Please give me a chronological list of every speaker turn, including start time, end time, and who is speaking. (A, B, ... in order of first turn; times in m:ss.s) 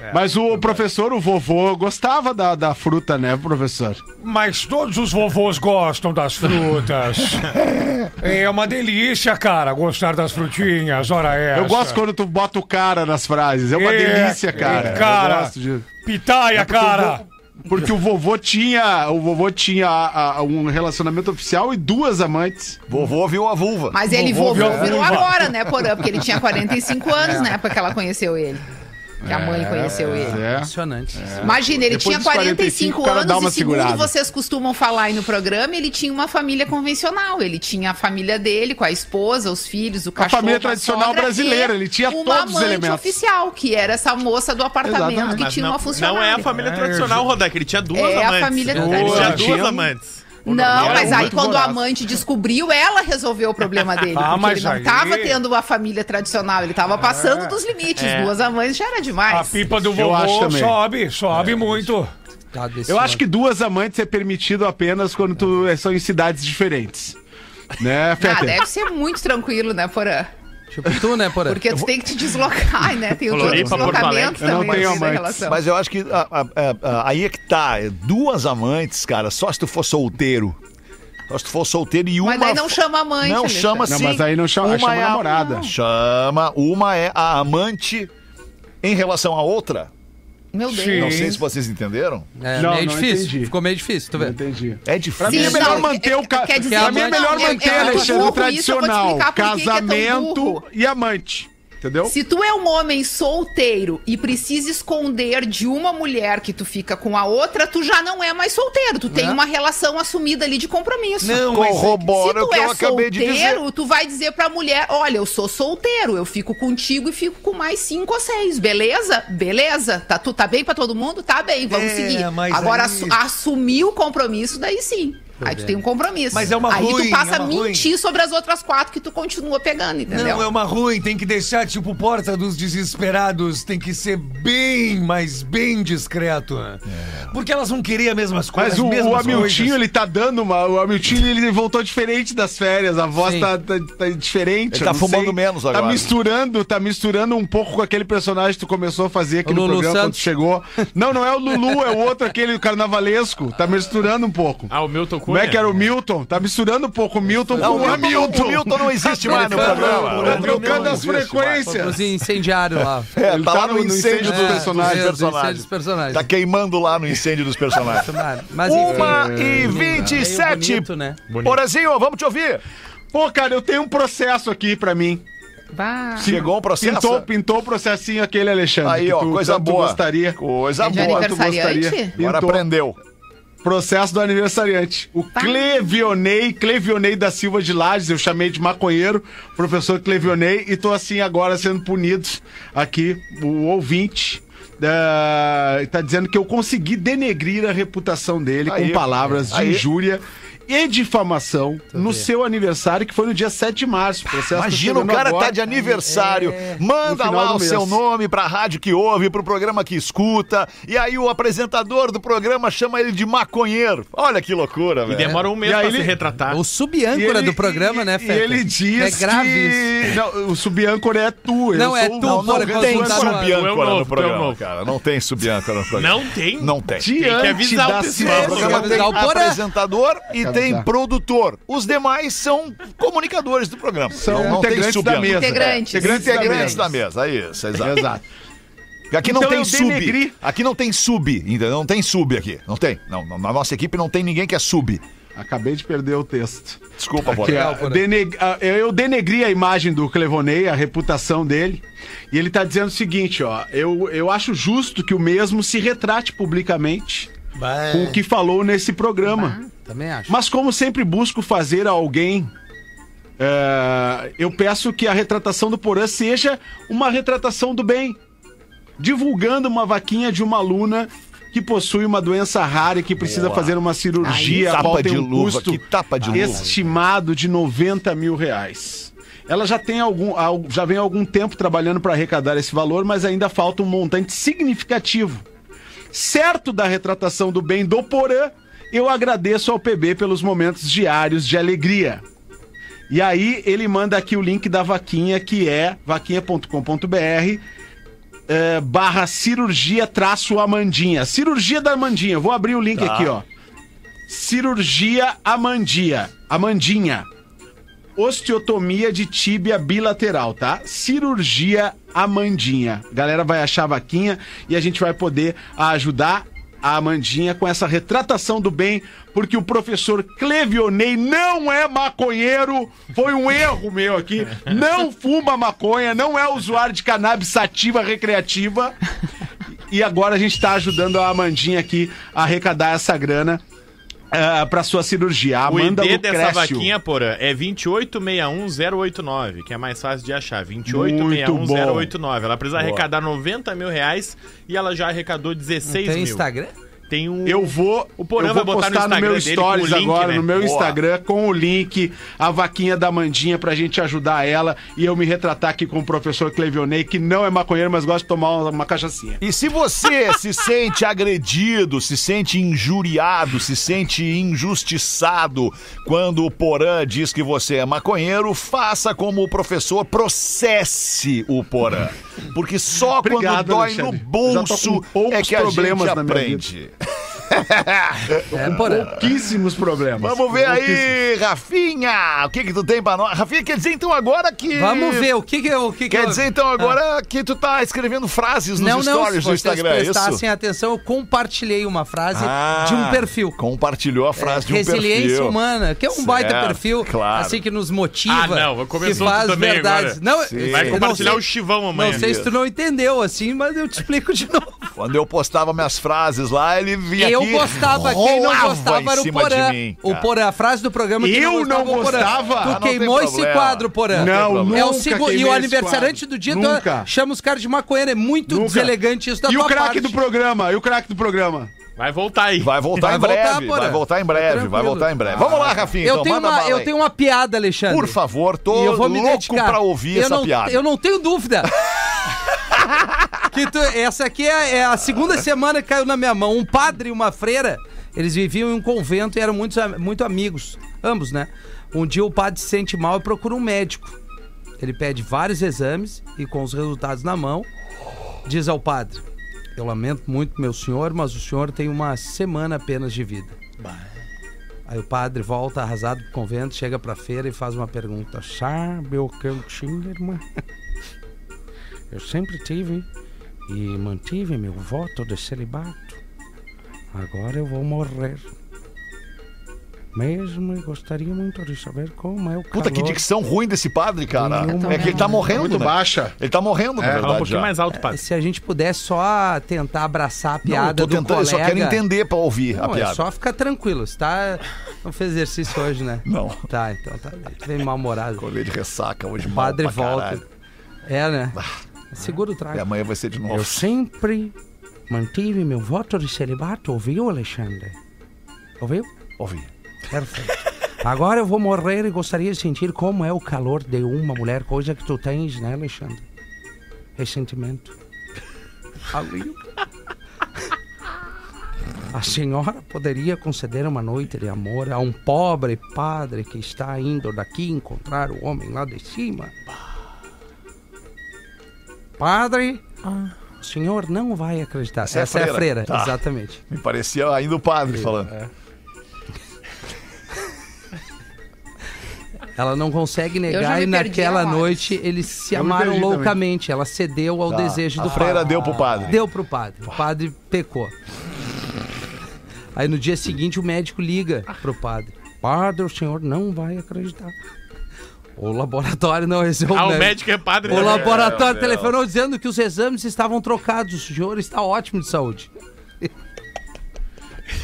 0:00.1-0:04.0 A
0:00.1-0:00.8 B
0:04.2-0:07.6 B
0:07.6-0:08.1 C
0:08.2-0:12.0 B
0:11.5-0:15.9 A
0:13.7-0:17.2 B
0:16.5-0:22.8 A
0:22.9-0:24.0 C
0:23.9-0:28.7 D
0:24.1-0:25.4 B
0:24.4-0:25.0 A
0:29.2-0:34.1 A
0:29.2-0:30.4 D
0:30.2-0:31.5 E
0:31.4-0:46.5 D
0:40.2-0:43.2 A
0:44.8-0:45.4 A
0:45.2-0:51.3 F
0:46.4-0:47.3 B
0:47.9-0:49.4 D
0:48.7-0:49.5 B
0:48.9-0:49.9 A
0:50.4-0:59.7 D
0:50.6-0:51.8 A
0:54.1-0:55.4 B
0:57.0-0:57.5 B
0:58.0-0:58.3 F
0:59.3-1:02.1 B
0:59.8-1:00.8 A
1:02.5-1:03.2 E
1:02.9-1:07.2 A
1:07.8-1:08.6 A
1:08.2-1:10.3 D
1:10.7-1:11.6 E
1:11.4-1:15.6 D
1:13.3-1:15.0 F
1:13.4-1:15.4 A
1:15.4-1:20.6 C
1:21.3-1:28.1 C
1:22.2-1:24.2 D
1:23.8-1:25.7 A
1:25.3-1:25.7 D
1:28.8-1:29.9 C
1:30.5-1:31.4 D
1:30.7-1:31.4 B
1:31.0-1:32.3 C
1:32.4-1:34.4 E
1:32.5-1:33.5 A
1:34.1-1:42.1 A
1:34.8-1:35.9 C
1:35.2-1:40.6 D
1:36.7-1:38.3 E
1:42.0-2:10.5 D
1:51.2-1:52.0 G
1:51.3-1:53.6 C
2:01.7-2:03.2 G
2:05.4-2:05.8 E
2:06.3-2:07.9 G
2:10.1-2:19.8 G
2:16.8-2:17.3 C
2:18.5-2:34.7 A
2:23.2-2:23.5 E
2:24.7-2:26.1 C
2:29.4-2:30.3 E
2:34.7-2:35.7 F
2:35.3-2:42.1 A
2:37.2-2:38.4 E
2:37.6-2:40.6 C
2:39.3-2:41.0 E
2:39.3-2:41.3 G
2:41.6-2:43.1 E
2:43.1-2:50.9 C
2:43.2-2:45.1 A
2:44.2-2:46.3 E
2:47.8-2:51.2 E
2:48.8-2:50.2 A
2:51.3-2:51.6 F
2:51.4-2:52.6 C
2:53.1-2:55.2 A
2:55.7-2:56.4 D
2:56.2-3:02.6 A
2:56.2-2:57.3 C
2:58.8-3:01.4 C
3:00.8-3:02.2 D
3:02.2-3:03.0 C
3:03.6-3:25.6 A
3:05.4-3:05.9 D
3:18.6-3:19.9 C
3:21.9-3:22.3 E
3:24.5-3:35.4 C
3:25.7-3:26.8 E
3:27.0-3:28.0 A
3:35.1-3:36.6 F
3:35.6-3:36.2 A
3:36.5-3:39.9 E
3:37.1-3:43.3 A
3:41.7-3:43.5 E
3:42.2-3:47.1 C
3:43.2-3:44.6 F
3:45.9-3:49.1 F
3:47.0-3:49.0 A
3:48.2-3:58.1 C
3:48.3-3:49.6 E
3:50.4-3:50.8 A
3:54.2-3:56.8 A
3:55.2-3:56.9 D
3:57.8-3:58.2 A
3:59.1-4:05.0 C
3:59.2-4:00.4 A
4:05.4-4:17.3 A
4:07.0-4:07.7 C
4:07.2-4:08.0 E
4:17.5-4:18.2 G
4:17.9-4:19.6 A
4:19.3-4:19.6 D
4:19.7-4:20.4 E
4:20.3-4:22.5 A
4:23.4-4:28.2 A
4:29.0-4:45.4 A
4:33.2-4:36.7 C
4:34.2-4:34.9 D
4:36.2-4:36.8 E
4:46.1-4:52.2 A
4:53.1-4:57.6 A
4:58.5-5:03.4 A
5:02.9-5:03.4 C
5:04.3-5:07.3 A
5:08.2-5:29.0 A
5:29.9-5:33.6 A
5:34.3-5:36.9 A
5:35.7-5:46.4 F
5:40.9-5:42.1 A
5:42.8-5:43.0 C
5:45.8-5:46.7 E
5:47.1-5:50.5 F
5:47.4-5:59.4 A
5:50.5-5:51.0 C
5:59.4-6:19.3 C
6:13.2-6:16.6 A
6:18.5-6:19.1 E
6:18.6-6:21.1 A
6:20.2-6:25.3 C
6:24.7-6:27.0 E
6:26.1-6:30.4 C
6:28.8-6:33.6 E
6:32.3-6:35.6 C
6:34.4-6:44.9 E
6:36.1-6:37.6 C
6:38.3-6:42.3 F
6:39.1-6:39.4 C
6:40.5-6:41.4 C
6:42.0-6:42.5 C
6:44.9-6:50.3 C
6:47.2-7:00.2 E
6:51.2-6:52.8 A
6:51.9-6:54.9 C
6:54.1-6:57.1 A
6:58.5-7:01.7 A
7:02.0-7:02.8 F
7:02.6-7:06.9 C
7:03.0-7:11.7 E
7:05.4-7:05.8 A
7:07.9-7:10.8 C
7:13.5-7:24.2 E
7:24.8-7:27.7 E
7:28.4-7:29.2 E
7:29.7-7:33.6 E
7:34.9-7:40.4 E
7:42.1-7:43.1 E
7:43.7-7:46.2 E
7:47.1-7:48.5 E
7:50.1-7:53.2 E
7:52.7-7:57.7 C
7:54.3-7:55.5 E
7:54.7-7:55.4 D
7:55.4-7:56.4 A
7:57.0-7:57.3 A
7:57.2-7:58.2 F
7:57.9-8:02.0 E
8:00.6-8:03.2 C
8:02.7-8:08.5 E
8:06.2-8:06.6 C
8:08.4-8:10.4 C
8:09.4-8:10.4 E
8:11.0-8:11.6 E
8:12.1-8:12.9 E
8:12.7-8:13.9 C
8:13.5-8:14.5 E
8:15.1-8:18.0 E
8:18.8-8:19.1 E
8:19.4-8:19.7 C
8:20.1-8:26.2 E
8:27.2-8:27.9 E
8:29.1-8:29.6 E
8:32.1-8:39.5 E
8:42.2-8:42.8 E
8:43.6-8:46.6 E
8:45.0-8:48.3 C
8:52.5-9:00.9 E
8:53.5-8:54.9 D
8:55.5-8:56.4 A
8:57.5-8:59.2 C
8:58.3-8:58.8 B
9:02.7-9:07.3 E
9:08.4-9:15.5 E
9:09.7-9:11.4 F
9:10.7-9:12.0 C